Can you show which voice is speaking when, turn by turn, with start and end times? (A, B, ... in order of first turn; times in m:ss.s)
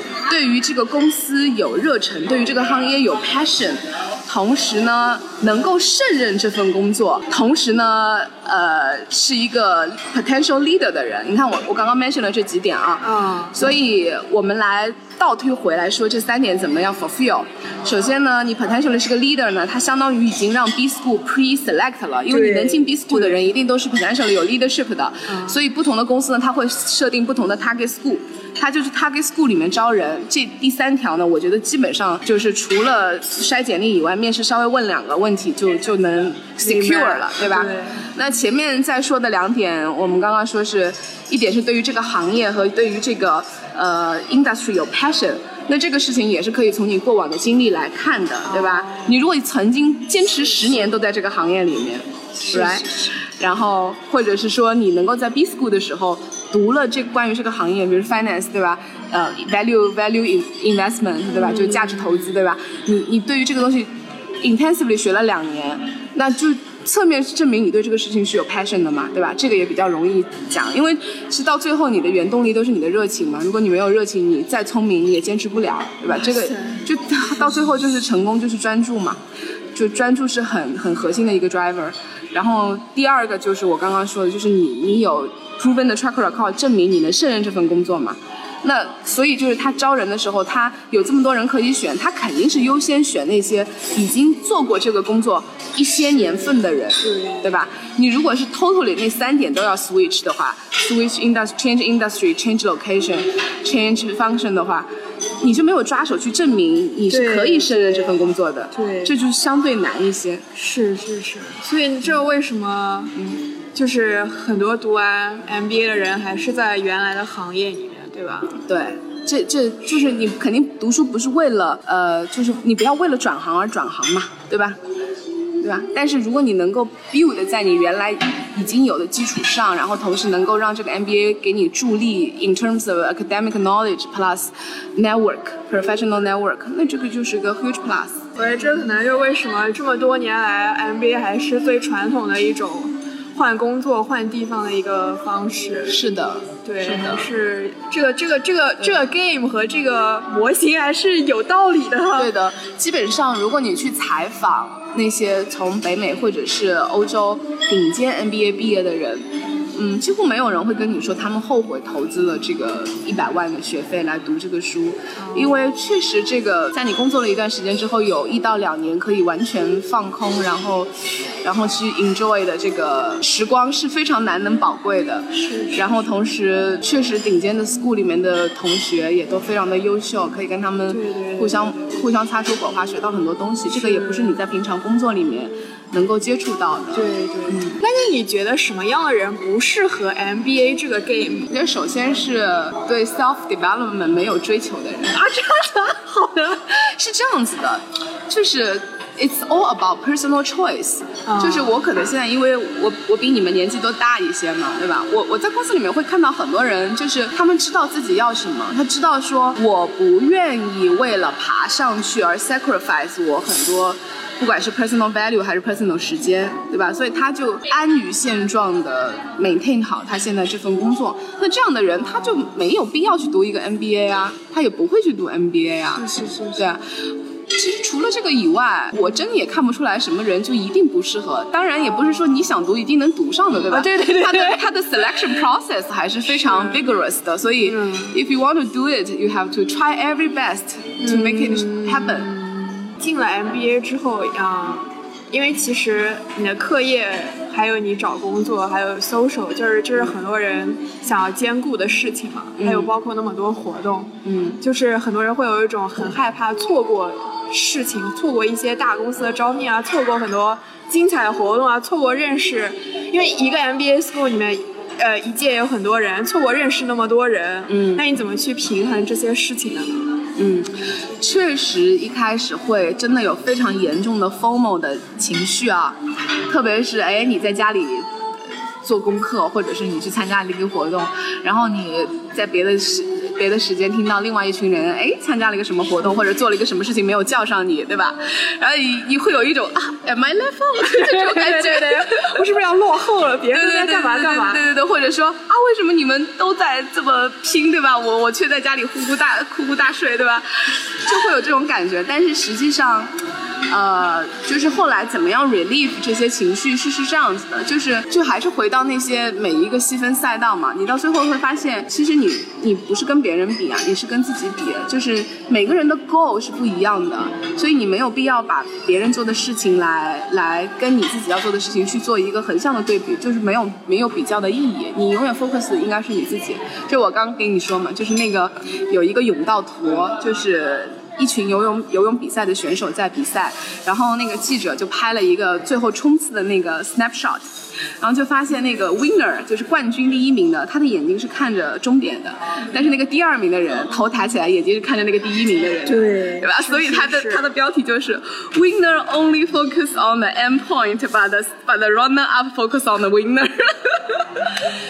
0:00.3-1:19.2 A
0:13.0-0:13.5 B
0:22.3-0:23.5 B
0:25.3-0:25.6 B
0:36.6-0:38.0 B
0:48.4-0:49.2 B
0:52.4-0:53.1 B
1:01.3-1:02.2 B
1:16.2-1:16.8 B
1:19.7-1:44.9 A
1:37.0-1:37.5 B
1:45.4-1:50.4 A
1:47.1-1:49.1 B
1:50.5-1:53.2 B
1:53.2-1:53.4 A
1:53.7-1:58.6 B
1:58.6-2:04.8 A
2:05.6-2:18.2 A
2:18.4-2:26.0 B
2:25.9-2:27.3 A
2:26.6-2:32.3 B
2:32.2-3:07.8 A
2:45.2-2:45.6 B
2:55.3-2:56.1 B
3:00.9-3:01.8 B
3:03.7-3:04.4 B
3:06.9-3:11.5 B
3:11.5-3:15.2 A
3:15.1-3:16.7 B
3:16.6-3:46.8 A
3:21.3-3:21.8 B
3:46.0-3:46.7 B
3:47.5-4:02.3 A
3:53.7-3:54.7 B
3:56.3-3:56.8 B
3:57.6-3:58.1 B
4:01.0-4:30.2 B
4:12.6-4:12.9 A
4:14.2-4:14.6 A
4:27.7-4:28.0 A
4:30.4-4:38.1 A
4:38.8-4:52.4 A
4:50.8-4:54.6 B
4:53.5-5:03.1 A
5:03.7-5:54.4 A
5:45.8-5:47.4 B